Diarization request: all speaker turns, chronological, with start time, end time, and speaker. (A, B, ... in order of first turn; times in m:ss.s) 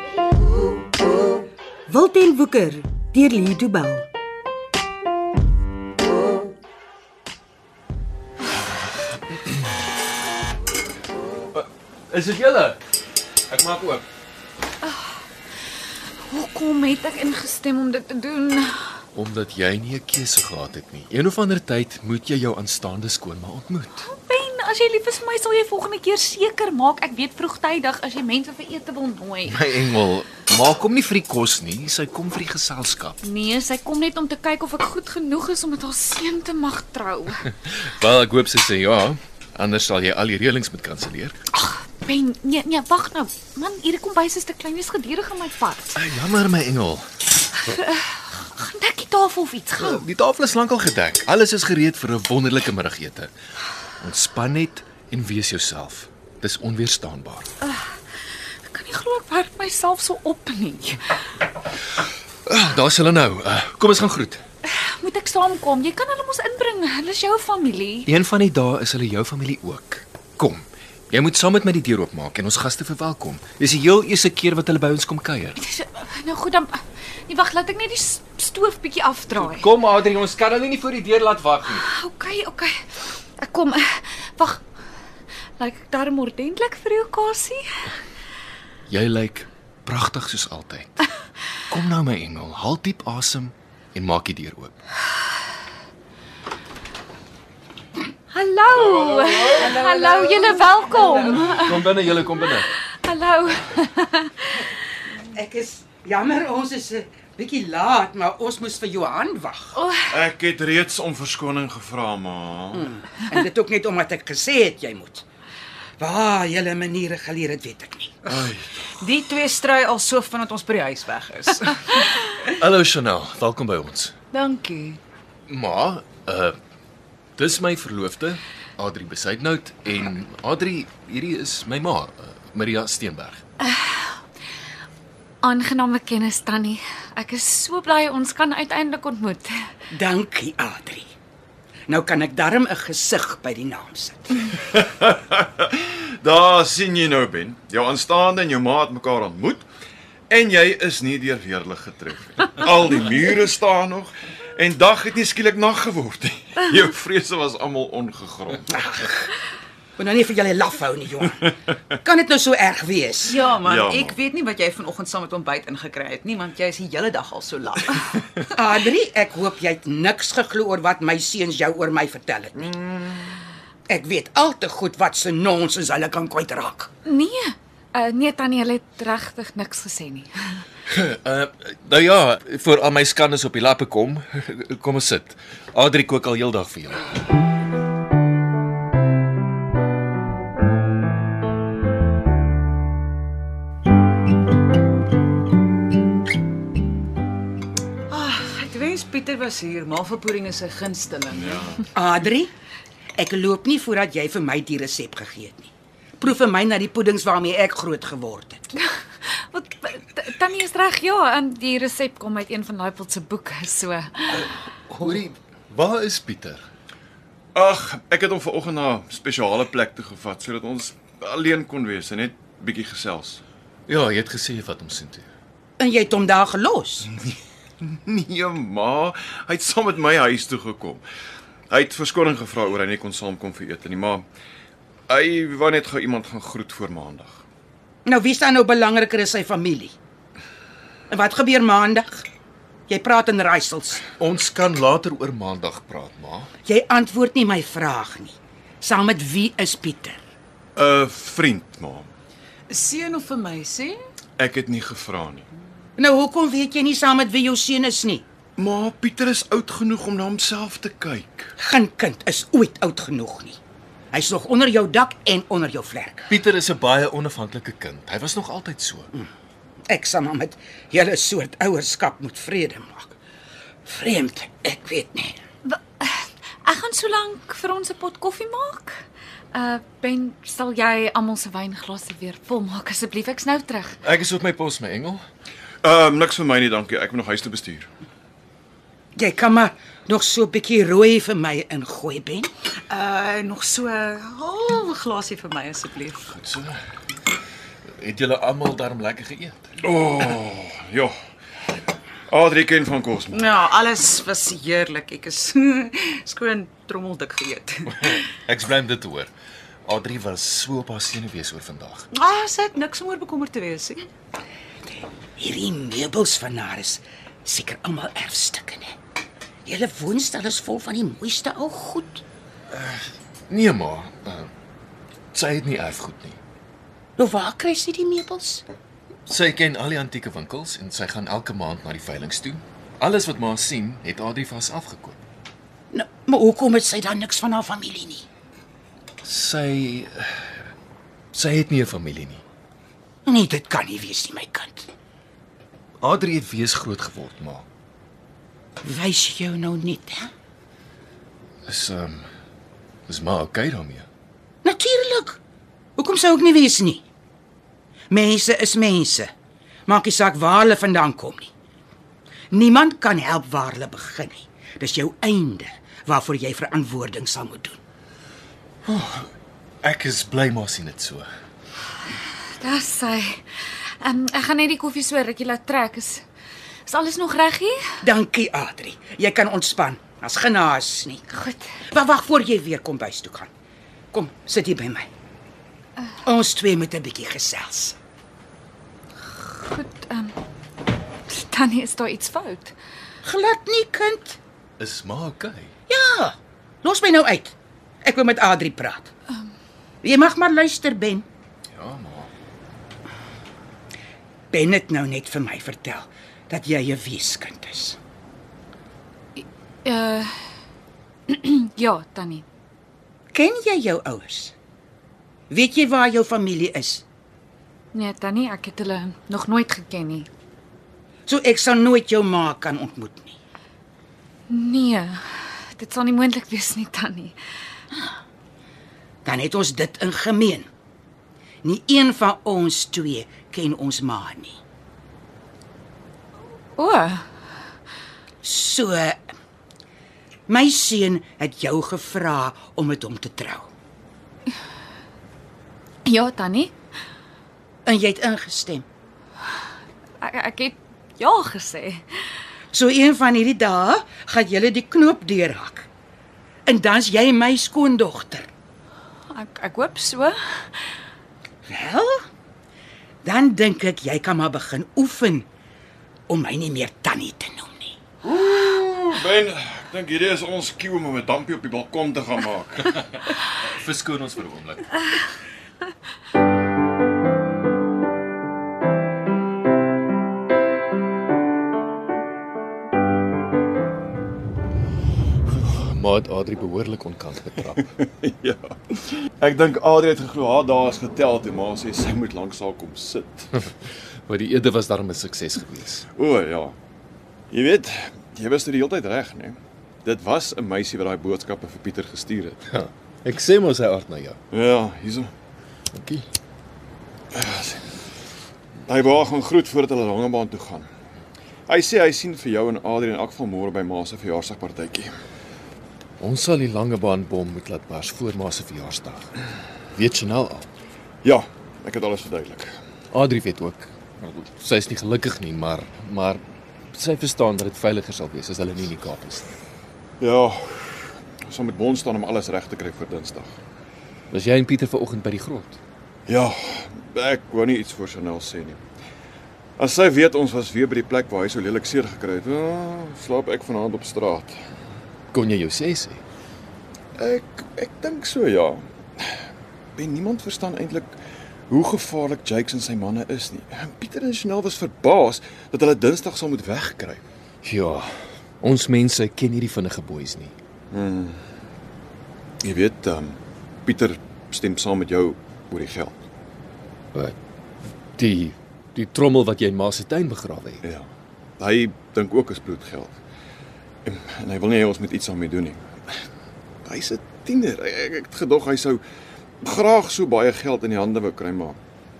0:01.9-0:04.0 A
0:11.5-0:12.8 B
0:13.5-0:14.0 B
0:14.8-0:15.2 C
0:16.3-0:18.9 C
0:19.1-0:24.0 B
0:24.0-0:29.6 C
0:29.5-0:33.2 B
0:33.2-0:37.4 C
0:37.5-0:41.4 B
0:41.5-0:46.0 C
0:45.9-0:47.0 B
0:47.5-0:50.0 C
0:49.8-0:53.3 B
0:54.0-0:57.5 B
0:57.6-0:57.9 C
0:58.6-1:01.1 C
1:02.4-1:04.4 B
1:04.6-1:08.1 C
1:08.1-1:15.6 B
1:15.6-1:19.7 C
1:19.4-1:21.8 B
1:21.7-1:24.6 C
1:25.6-1:27.9 C
1:28.9-1:31.0 B
1:31.7-1:34.7 B
1:38.3-1:41.8 C
1:41.2-1:42.7 B
1:42.7-1:44.6 C
1:45.3-1:49.7 D
1:50.1-1:52.9 E
1:52.7-1:55.2 D
1:56.0-1:58.2 D
1:58.2-1:58.7 E
1:59.0-2:02.1 F
2:02.5-2:04.1 B
2:04.3-2:05.0 F
2:05.5-2:06.6 B
2:07.4-2:13.4 B
2:13.6-2:14.0 C
2:15.4-2:19.6 C
2:19.9-2:21.1 D
2:21.9-2:24.4 D
2:24.7-2:29.6 E
2:30.3-2:38.8 E
2:38.7-2:39.2 D
2:40.0-2:41.4 D
2:42.0-2:43.4 D
2:43.2-2:48.2 F
2:43.6-2:44.2 E
2:48.5-2:52.7 D
2:52.6-2:53.4 E
2:53.9-2:56.9 D
2:57.0-3:00.3 C
3:00.9-3:07.1 B
3:18.1-3:21.6 F
3:21.3-3:21.9 E
3:21.9-3:22.5 D
3:23.2-3:28.6 D
3:28.8-3:34.5 C
3:34.9-3:36.6 B
3:37.5-3:43.4 E
3:43.9-3:45.2 B
3:45.8-3:47.1 D
3:47.0-3:51.0 E
3:51.7-3:54.2 E
3:55.1-3:57.4 E
3:58.0-3:59.9 D
4:01.1-4:02.2 D
4:02.9-4:04.0 D
4:04.2-4:06.5 B
4:06.6-4:10.2 D
4:10.8-4:12.1 E
4:12.7-4:14.0 F
4:14.4-4:15.5 E
4:16.0-4:18.2 D
4:18.6-4:21.5 E
4:21.6-4:23.6 D
4:24.1-4:26.3 D
4:26.3-4:29.1 B
4:29.9-4:33.1 D
4:33.8-4:35.4 D
4:35.6-4:39.0 C
4:39.5-4:44.0 C
4:44.0-4:45.2 B
4:45.8-4:47.9 E
4:49.2-4:52.5 D
4:52.9-4:56.3 F
4:56.3-4:56.8 B
4:58.0-4:59.6 B
4:59.8-5:01.1 E
5:02.3-5:03.5 E
5:03.3-5:08.2 F
5:08.0-5:09.3 B
5:09.8-5:12.1 B
5:12.1-5:14.0 F
5:15.4-5:19.0 D
5:19.6-5:22.2 D
5:23.5-5:24.5 B
5:25.3-5:26.4 B
5:27.2-5:28.6 D
5:29.3-5:35.2 B
5:35.9-5:38.2 D
5:39.2-5:40.5 B
5:41.3-5:42.4 B
5:43.2-5:44.9 D
5:46.0-5:47.6 B
5:48.8-5:50.3 D
5:51.6-5:52.2 B
5:53.1-5:54.1 B
5:54.6-5:55.4 D
5:56.0-5:57.0 D
5:58.1-5:59.3 D
5:59.9-6:01.5 D
6:02.5-6:07.8 D
6:08.8-6:09.3 B
6:09.8-6:11.3 B
6:12.6-6:16.2 C
6:16.9-6:17.8 C
6:18.0-6:21.2 D
6:21.3-6:21.6 C
6:21.9-6:23.5 D
6:24.1-6:25.1 D
6:26.2-6:28.0 D
6:29.3-6:30.4 C
6:31.3-6:32.7 C
6:33.2-6:34.4 D
6:34.8-6:35.7 B
6:35.9-6:39.1 D
6:40.0-6:41.2 D
6:41.7-6:42.3 B
6:44.5-6:48.0 D
6:49.4-6:50.3 C
6:51.3-6:52.4 C
6:53.3-6:54.5 D
6:55.5-6:57.0 D
6:57.9-7:00.3 C
7:01.3-7:03.4 D
7:04.5-7:05.2 C
7:05.8-7:07.4 C
7:09.2-7:10.7 D
7:11.6-7:14.6 D
7:16.8-7:17.2 C
7:18.4-7:19.2 D
7:20.5-7:23.7 D
7:26.0-7:26.7 C
7:27.8-7:28.8 D
7:30.2-7:32.0 C
7:32.7-7:35.9 D
7:36.7-7:38.5 D
7:39.3-7:40.4 C
7:41.7-7:42.2 D
7:43.2-7:45.5 D
7:46.3-7:48.0 D
7:48.2-7:53.4 E
7:53.7-7:55.0 B
8:05.5-8:07.8 B
8:08.0-8:13.6 E
8:14.3-8:16.0 B
8:16.1-8:16.8 E
8:17.5-8:22.6 E
8:22.7-8:24.4 B
8:24.5-8:25.3 E
8:25.9-8:26.2 B
8:27.3-8:27.9 E
8:28.8-8:30.9 E
8:31.7-8:35.1 E
8:36.2-8:39.3 B
8:39.9-8:40.7 B
8:41.2-8:42.7 E
8:43.1-8:49.5 B
8:50.2-8:53.6 E
8:54.3-8:55.8 B
8:56.3-8:58.8 E
8:59.8-9:04.5 E
9:05.3-9:06.2 B
9:07.2-9:09.4 E
9:10.0-9:11.1 E
9:11.7-9:17.2 E
9:17.6-9:20.5 B
9:20.9-9:21.4 E
9:22.6-9:26.2 E
9:28.2-9:30.8 B
9:30.8-9:33.2 E
9:34.0-9:36.1 E
9:36.8-9:39.0 E
9:39.6-9:41.8 E